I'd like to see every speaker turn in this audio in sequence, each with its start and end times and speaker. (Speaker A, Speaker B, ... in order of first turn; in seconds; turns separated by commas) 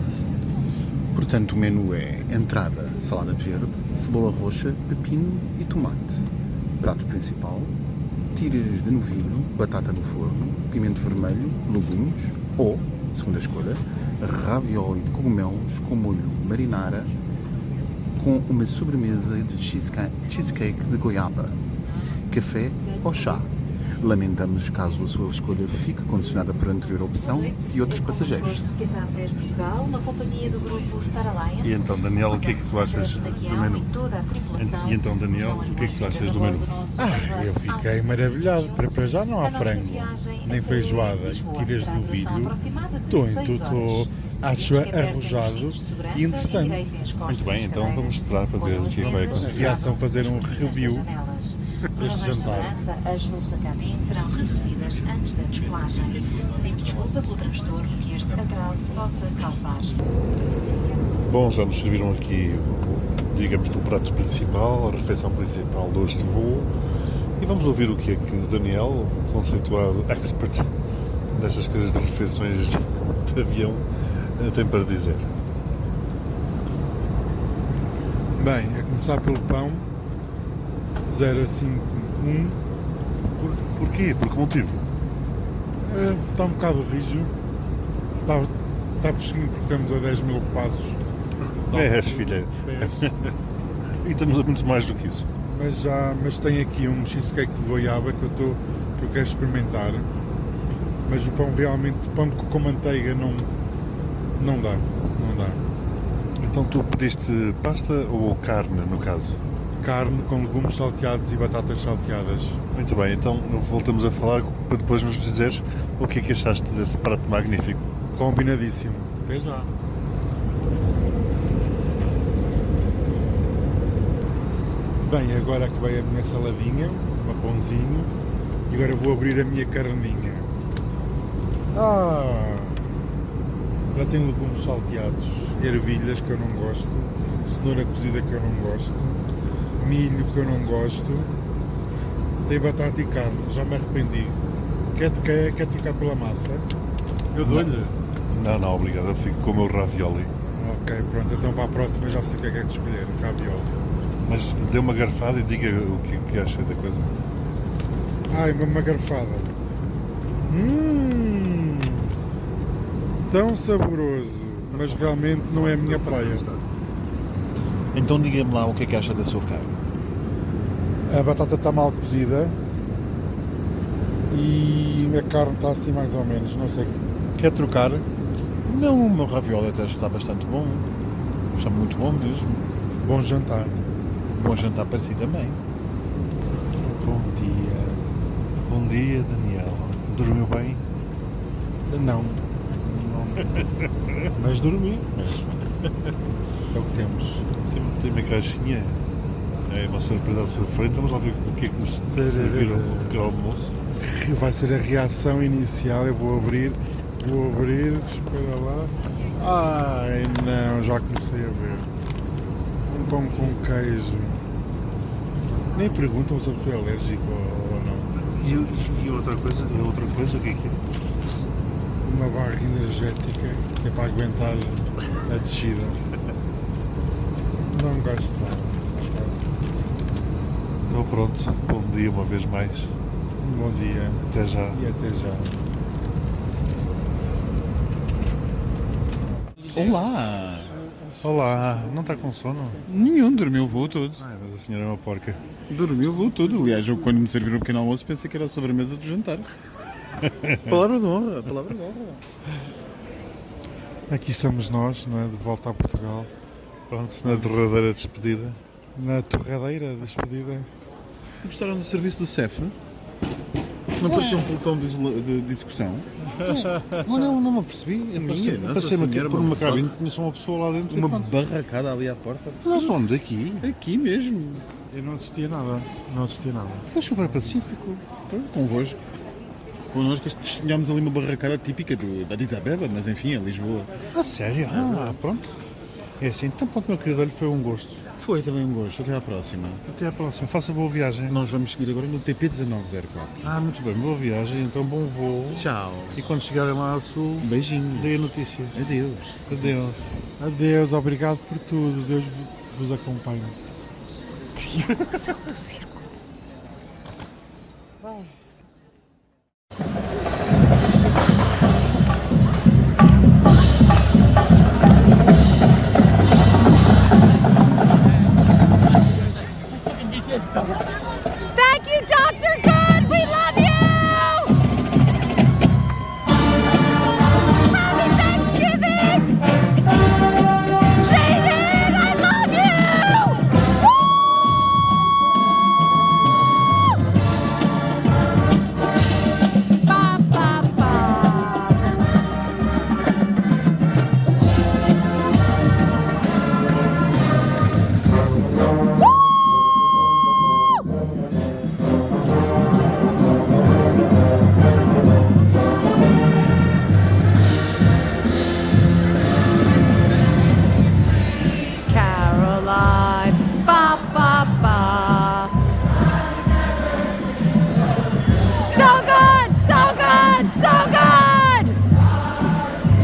Speaker A: 1.1-6.2, Speaker A: 6.8-7.7, Speaker A: 8.3-17.1, Speaker A: 18.1-21.6, Speaker A: 22.3-28.7, Speaker B: 28.8-31.5, Speaker C: 31.6-34.0, Speaker C: 34.5-36.7, Speaker D: 37.0-47.0, Speaker C: 47.2-49.8, Speaker D: 49.3-51.2, Speaker B: 51.2-51.4, Speaker D: 52.0-52.8, Speaker B: 52.8-54.2, Speaker A: 54.2-60.0, Speaker C: 61.3-66.7, Speaker C: 67.4-70.7, Speaker C: 71.3-75.3, Speaker D: 78.3-79.8, Speaker D: 81.1-82.6, Speaker C: 83.3-84.9, Speaker D: 85.8-87.3, Speaker D: 88.2-91.0, Speaker D: 91.7-93.1, Speaker C: 91.7-93.3, Speaker C: 94.0-95.3, Speaker D: 95.5-100.1, Speaker D: 101.0-103.5, Speaker D: 104.4-105.6, Speaker C: 106.4-109.4, Speaker D: 109.8-112.6, Speaker C: 112.7-117.9, Speaker D: 118.1-119.7, Speaker D: 125.0-128.1, Speaker D: 128.7-130.5, Speaker D: 131.7-132.8, Speaker D: 133.9-139.2, Speaker D: 139.8-141.3, Speaker D: 142.4-144.4, Speaker D: 144.9-146.6, Speaker D: 147.3-147.9, Speaker C: 147.4-150.3, Speaker D: 150.5-153.8, Speaker C: 154.2-157.1, Speaker D: 158.3-159.5, Speaker D: 160.5-162.1, Speaker D: 163.3-166.4, Speaker C: 164.7-166.6, Speaker A: 167.9-169.7, Speaker D: 171.1-172.6, Speaker D: 174.3-178.0, Speaker A: 178.6-180.9, Speaker A: 181.5-182.6, Speaker D: 183.0-183.7, Speaker A: 184.3-185.6, Speaker D: 186.7-188.1, Speaker C: 188.6-190.8, Speaker D: 191.9-193.7, Speaker D: 194.2-195.2, Speaker D: 196.7-197.4, Speaker C: 197.7-199.0, Speaker C: 199.7-203.7, Speaker D: 202.1-203.2, Speaker D: 204.0-211.9, Speaker D: 212.9-214.4, Speaker D: 215.7-218.1, Speaker C: 218.2-220.8, Speaker D: 222.0-226.0, Speaker D: 227.7-229.4, Speaker C: 230.9-232.9, Speaker D: 233.4-235.5, Speaker C: 234.2-234.8, Speaker A: 239.7-240.7, Speaker C: 241.2-242.8, Speaker A: 242.9-244.2, Speaker C: 244.2-245.4, Speaker A: 245.7-249.5, Speaker C: 250.3-251.5, Speaker A: 250.6-252.2, Speaker D: 254.1-256.3, Speaker C: 256.9-258.6, Speaker D: 258.9-260.7, Speaker A: 261.4-262.8, Speaker A: 264.0-267.4, Speaker C: 264.0-264.5, Speaker D: 266.4-267.0, Speaker C: 267.0-271.3, Speaker A: 268.1-269.9, Speaker A: 270.9-273.0, Speaker C: 272.6-273.7, Speaker A: 273.6-274.6, Speaker D: 274.9-277.5, Speaker A: 276.9-279.0, Speaker A: 279.9-284.0, Speaker C: 284.1-285.5, Speaker A: 284.7-285.2, Speaker C: 286.2-288.0, Speaker A: 288.2-289.8, Speaker C: 289.9-291.4, Speaker A: 291.3-293.4, Speaker C: 293.4-298.8, Speaker A: 295.5-296.2, Speaker A: 297.4-298.1, Speaker A: 298.7-299.7, Speaker C: 299.5-300.0, Speaker D: 300.4-303.6, Speaker E: 304.6-306.1, Speaker E: 321.5-324.5, Speaker E: 327.5-329.4, Speaker E: 331.0-333.8, Speaker E: 339.9-341.8, Speaker E: 361.9-365.5, Speaker E: 368.6-371.8